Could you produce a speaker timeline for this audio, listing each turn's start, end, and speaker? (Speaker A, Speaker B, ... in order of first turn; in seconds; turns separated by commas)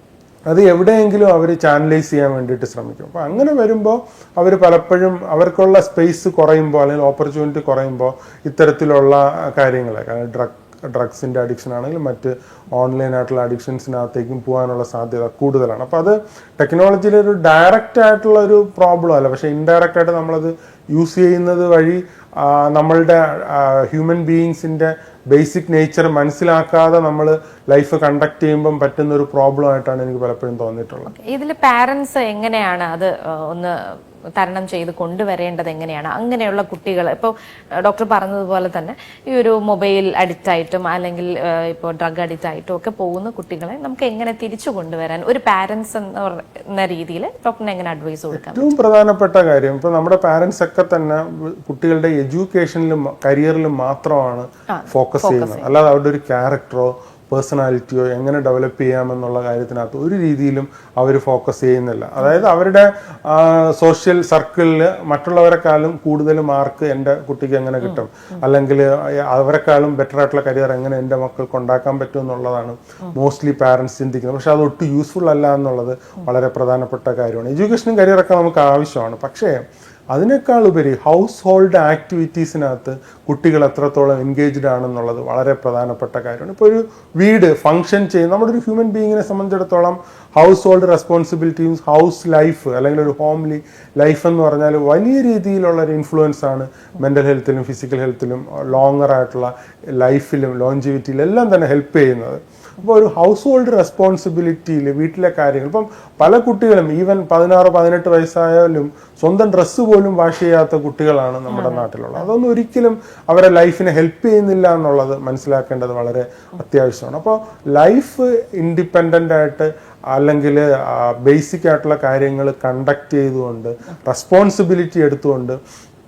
Speaker A: 0.5-31.1, Speaker B: 31.1-48.7, Speaker A: 48.3-79.6, Speaker B: 54.7-55.7, Speaker A: 80.1-125.6, Speaker B: 111.5-111.8